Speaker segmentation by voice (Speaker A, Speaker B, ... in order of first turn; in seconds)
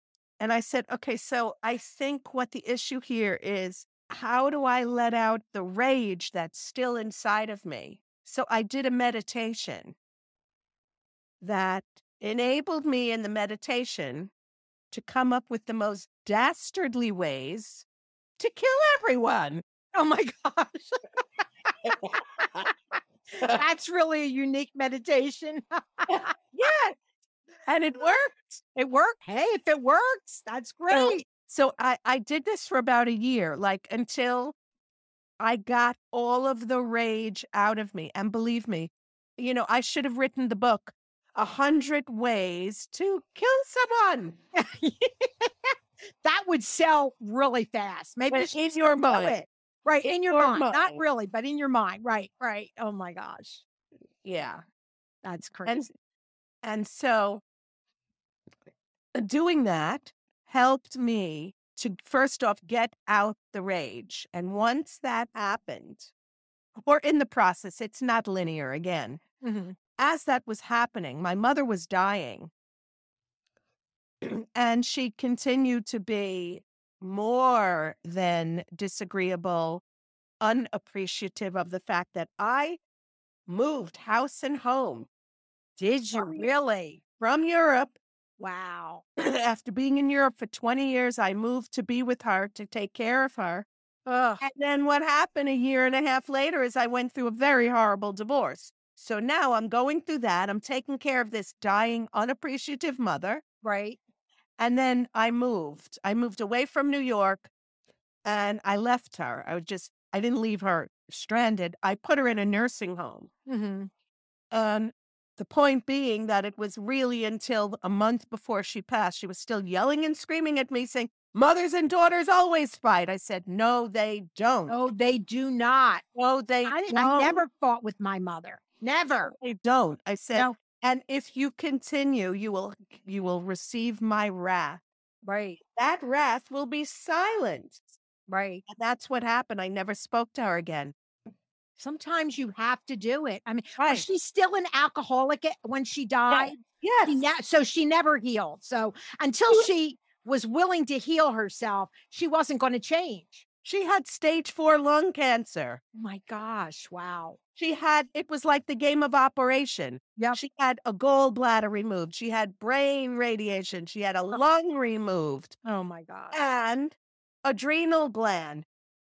Speaker A: 0.4-9.9, 11.4-14.3, 14.9-17.9, 18.4-19.6, 26.1-27.0, 27.6-28.6, 30.9-34.5, 35.4-44.4, 48.3-49.4, 50.0-51.0, 54.2-54.6, 56.6-57.4, 59.1-66.1, 66.8-69.2, 70.0-72.5, 74.2-79.8, 80.4-82.8, 83.5-85.1, 86.1-86.5, 87.2-88.0, 89.2-93.7, 94.4-103.4, 104.6-107.5, 108.2-113.3, 114.5-124.8, 126.1-127.4, 129.2-134.8, 135.8-137.9, 138.7-140.9, 143.8-144.0, 146.3-147.2, 153.6-155.8, 157.6-165.6, 166.3-168.6
Speaker B: 19.9-21.0, 22.4-22.7, 23.4-26.3, 28.7-31.2, 44.5-45.7, 46.2-53.6, 55.2-55.8, 69.4-69.8, 85.8-87.0, 88.4-89.0, 94.0-94.4, 103.6-104.0, 113.5-113.9, 124.7-126.0, 126.6-129.3, 135.2-135.6, 138.3-138.6, 141.8-153.4, 155.9-157.4, 165.6-166.4